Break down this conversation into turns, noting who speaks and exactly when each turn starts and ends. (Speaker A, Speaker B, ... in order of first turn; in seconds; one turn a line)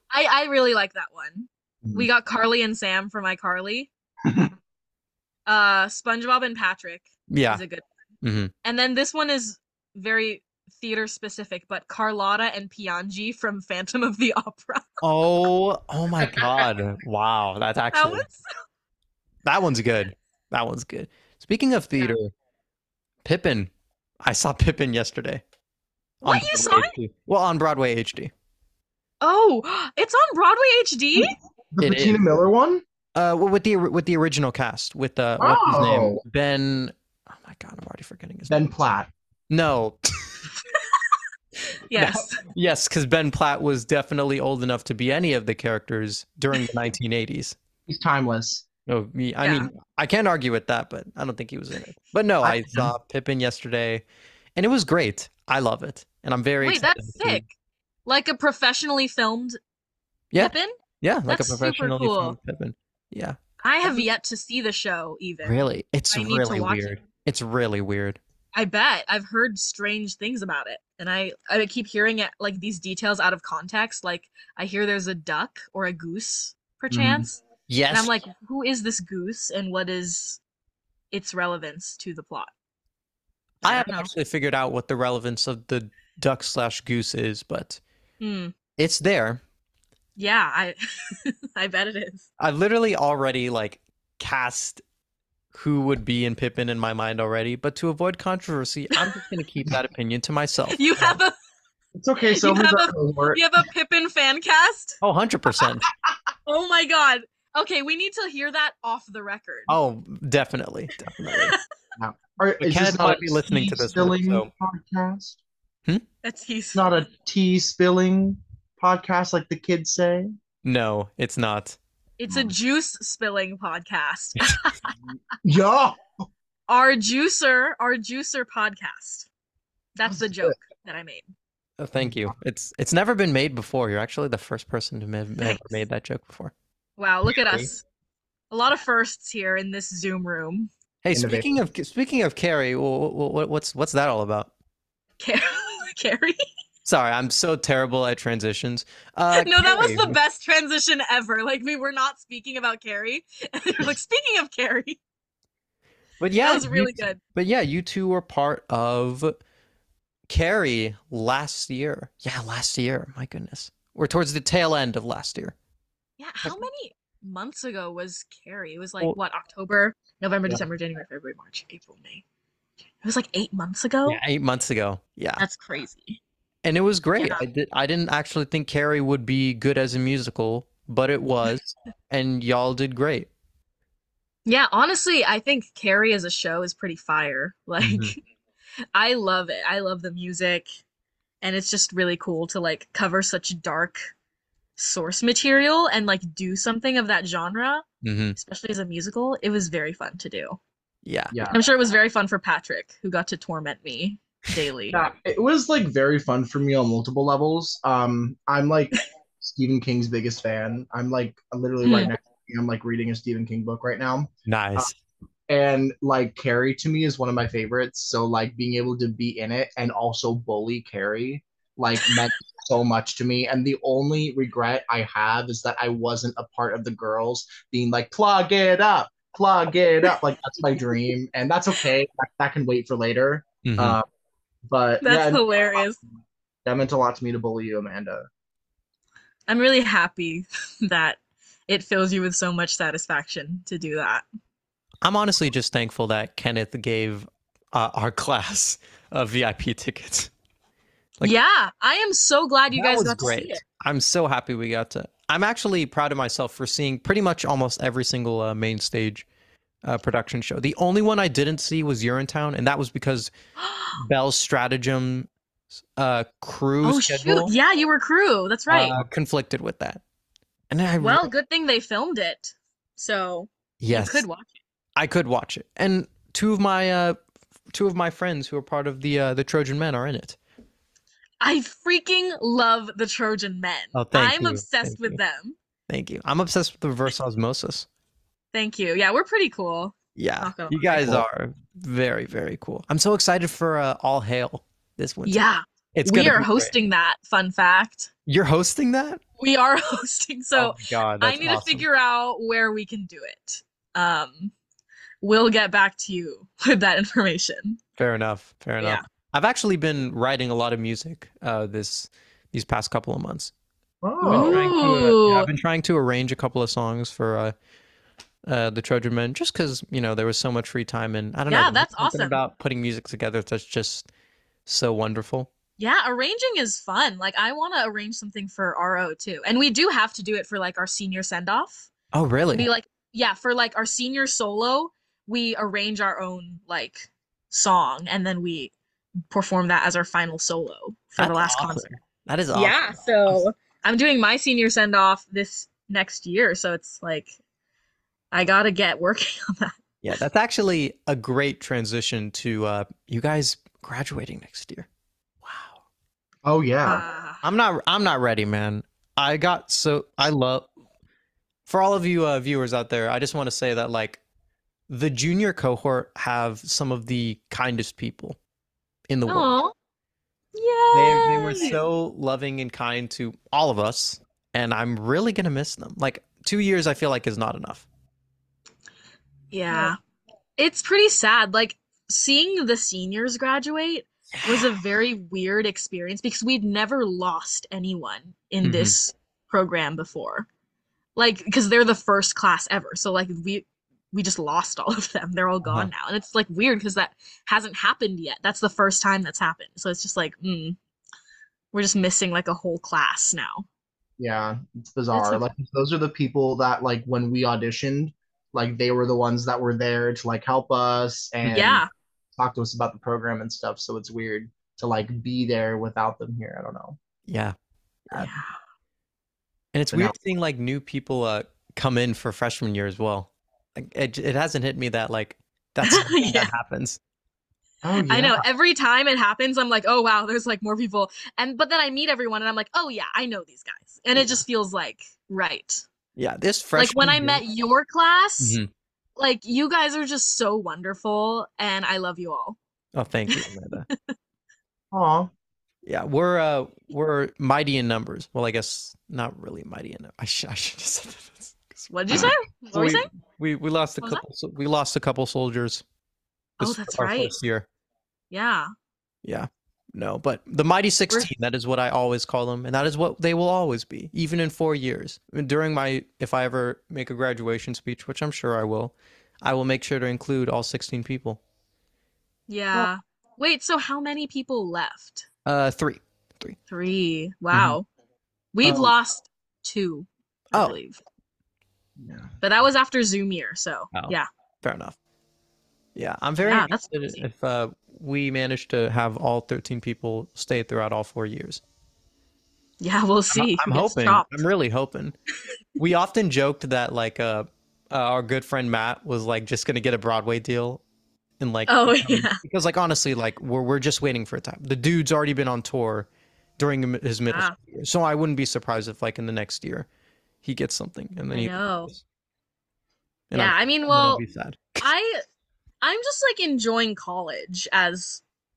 Speaker A: 0.1-3.9
Speaker B: 4.2-4.5
Speaker A: 5.5-7.9
Speaker C: 7.3-7.6
Speaker C: 8.2-8.5
Speaker A: 8.6-15.0
Speaker C: 15.0-18.2
Speaker A: 17.9-18.5
Speaker C: 19.4-22.3
Speaker C: 23.2-23.7
Speaker C: 24.2-25.4
Speaker C: 26.2-28.3
Speaker A: 26.2-26.9
Speaker A: 29.2-31.3
Speaker B: 31.2-32.8
Speaker C: 31.8-32.2
Speaker C: 33.1-38.5
Speaker B: 35.4-36.2
Speaker B: 38.5-39.1
Speaker C: 39.5-40.4
Speaker A: 41.9-42.4
Speaker C: 41.9-47.6
Speaker B: 47.9-48.6
Speaker C: 48.9-54.0
Speaker A: 49.4-49.7
Speaker B: 52.4-52.9
Speaker C: 54.5-57.4
Speaker A: 56.6-57.5
Speaker A: 58.0-59.6
Speaker C: 60.3-63.4
Speaker A: 60.4-60.8
Speaker A: 61.3-62.4
Speaker A: 63.6-67.0
Speaker C: 65.4-68.2
Speaker A: 68.5-80.4
Speaker C: 77.0-78.2
Speaker A: 81.1-82.5
Speaker C: 83.6-87.8
Speaker A: 83.6-84.1
Speaker A: 88.2-88.5
Speaker C: 88.8-89.4
Speaker A: 90.2-92.3
Speaker C: 92.4-94.8
Speaker C: 95.5-101.2
Speaker A: 99.0-99.2
Speaker A: 100.7-101.3
Speaker B: 102.0-103.4
Speaker A: 102.2-105.0
Speaker C: 105.0-105.9
Speaker A: 106.5-109.8
Speaker C: 109.7-111.5
Speaker A: 111.2-111.6
Speaker B: 112.0-115.4
Speaker C: 112.6-114.5
Speaker A: 116.2-117.0
Speaker B: 116.7-120.3
Speaker C: 120.6-121.8
Speaker A: 122.2-124.9
Speaker B: 125.4-126.0
Speaker A: 126.7-129.3
Speaker A: 129.9-131.3
Speaker B: 130.1-130.5
Speaker C: 131.8-136.5
Speaker B: 132.0-132.3
Speaker A: 135.4-135.8
Speaker A: 137.0-137.8
Speaker A: 138.5-140.7
Speaker C: 141.0-144.5
Speaker B: 141.1-141.5
Speaker A: 145.2-146.4
Speaker C: 146.8-150.2
Speaker A: 149.3-155.0
Speaker C: 156.2-159.3
Speaker A: 156.4-157.2
Speaker C: 160.3-165.6
Speaker A: 166.2-172.2
Speaker A: 173.0-174.2
Speaker C: 174.1-175.4
Speaker A: 175.4-176.2
Speaker C: 176.6-183.3
Speaker A: 177.2-177.4
Speaker A: 184.4-188.2
Speaker C: 187.8-188.1
Speaker A: 188.9-190.8
Speaker A: 191.4-194.1
Speaker A: 194.8-200.6
Speaker C: 198.0-198.4
Speaker C: 201.0-201.4
Speaker B: 201.3-201.6
Speaker A: 201.5-205.0
Speaker B: 204.9-214.9
Speaker A: 211.8-212.1
Speaker C: 214.4-214.9
Speaker B: 215.5-234.0
Speaker C: 233.6-234.0
Speaker B: 234.7-235.4
Speaker A: 235.0-236.0
Speaker B: 236.6-238.3
Speaker A: 239.5-244.2
Speaker C: 245.0-250.3
Speaker A: 251.2-253.6
Speaker C: 252.7-259.2
Speaker C: 259.8-263.3
Speaker A: 263.6-264.0
Speaker C: 263.9-265.3
Speaker C: 265.9-267.5
Speaker A: 266.8-268.9
Speaker C: 268.7-270.0
Speaker C: 270.7-271.3
Speaker A: 271.0-274.6
Speaker C: 273.8-274.2
Speaker C: 274.9-277.2
Speaker C: 277.7-280.4
Speaker A: 281.4-285.6
Speaker C: 283.9-285.2
Speaker C: 285.9-287.9
Speaker A: 288.5-291.2
Speaker C: 290.1-295.4
Speaker A: 295.2-298.1
Speaker C: 295.9-296.7
Speaker C: 298.3-299.2
Speaker A: 299.4-304.5
Speaker C: 300.6-301.8
Speaker A: 305.2-307.8
Speaker C: 308.0-313.5
Speaker B: 314.0-314.7
Speaker A: 314.2-315.5
Speaker C: 314.3-317.5
Speaker C: 318.4-324.1
Speaker A: 321.5-322.4
Speaker C: 324.6-325.5
Speaker A: 325.8-331.9
Speaker C: 332.1-332.7
Speaker A: 332.5-338.7
Speaker A: 339.3-342.0
Speaker C: 341.2-343.4
Speaker A: 342.5-347.4
Speaker A: 348.3-349.8
Speaker C: 350.0-354.9
Speaker C: 355.4-355.8
Speaker B: 356.4-357.0
Speaker A: 356.8-357.4
Speaker C: 357.4-360.7
Speaker C: 361.6-364.2
Speaker C: 364.9-368.4
Speaker C: 369.1-369.5
Speaker A: 369.3-369.7
Speaker A: 370.5-371.8
Speaker C: 370.9-377.9
Speaker A: 379.5-380.0
Speaker A: 380.6-390.5
Speaker C: 384.4-384.7
Speaker C: 388.6-388.9
Speaker A: 391.1-400.8
Speaker A: 401.7-403.6
Speaker B: 404.2-411.8
Speaker A: 405.1-405.4
Speaker A: 411.5-411.9
Speaker B: 412.4-417.0
Speaker C: 417.2-417.5
Speaker A: 418.1-418.5
Speaker C: 419.7-427.0
Speaker A: 425.8-426.5
Speaker B: 427.8-428.4
Speaker A: 428.1-435.8
Speaker C: 436.1-437.4
Speaker A: 436.7-438.6
Speaker C: 438.4-438.7
Speaker A: 439.1-442.6
Speaker C: 442.9-443.9
Speaker A: 443.3-444.1
Speaker B: 444.9-445.3
Speaker C: 445.8-455.8
Speaker A: 451.9-453.1
Speaker C: 456.6-457.7
Speaker A: 456.6-457.3
Speaker A: 458.3-458.7
Speaker C: 459.2-471.4
Speaker A: 472.5-475.3
Speaker C: 475.4-476.6
Speaker A: 476.7-477.9
Speaker C: 477.5-477.8
Speaker A: 478.5-481.0
Speaker B: 478.6-478.9
Speaker B: 482.0-482.3
Speaker A: 482.4-484.2
Speaker C: 483.9-484.9
Speaker C: 485.9-491.6
Speaker A: 486.4-487.2
Speaker A: 492.8-494.4
Speaker C: 493.3-495.1
Speaker C: 495.8-500.8
Speaker C: 501.4-509.9
Speaker A: 501.7-502.4
Speaker A: 507.3-507.6
Speaker C: 510.4-512.0
Speaker A: 511.3-511.9
Speaker C: 513.3-514.9
Speaker A: 513.3-514.2
Speaker A: 514.8-515.2
Speaker A: 515.8-518.2